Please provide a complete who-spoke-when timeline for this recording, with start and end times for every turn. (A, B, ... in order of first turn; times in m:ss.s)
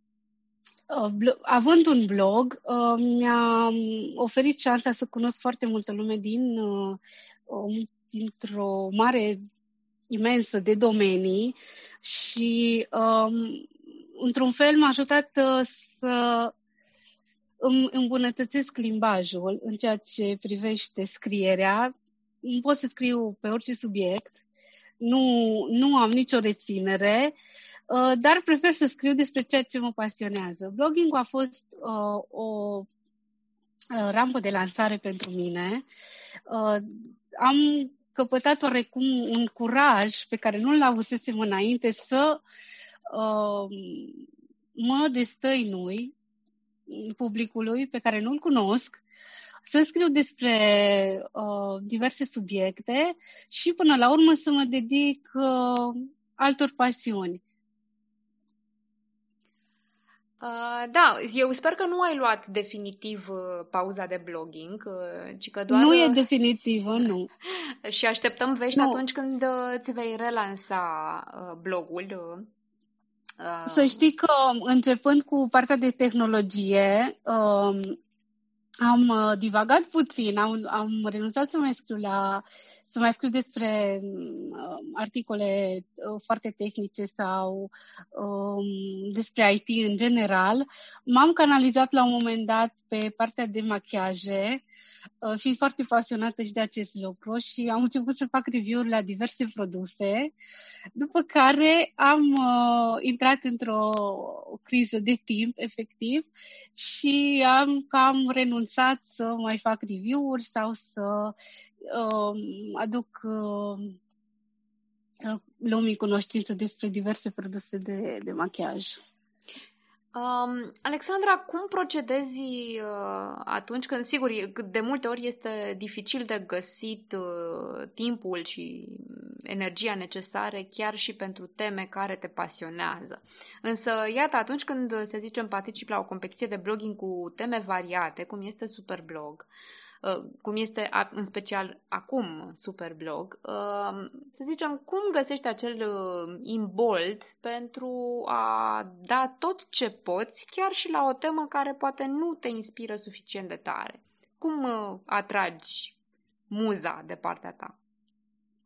0:00.9-0:09.4 A
0:10.1-0:16.5 A
0:17.6-0:24.4 A
0:25.0-0:27.4 A
0:27.9-0:32.9 A
0:33.9-0:35.9 A
0:36.5-0:42.4 A
0:43.1-0:44.2 A
0:44.8-0:46.1 A
0:46.9-0:49.0 A
0:49.7-0:57.4 A
1:00.4-1:06.2 B
1:05.7-1:07.3 A
1:07.5-1:12.5 B
1:08.7-1:09.0 A
1:13.4-1:14.0 B
1:13.7-1:18.0 A
1:18.8-1:34.6 A
1:35.2-1:40.3 A
1:41.0-1:54.0 A
1:55.2-1:59.0 A
2:00.1-2:19.5 B
2:20.0-2:36.0 B
2:36.5-2:37.8 B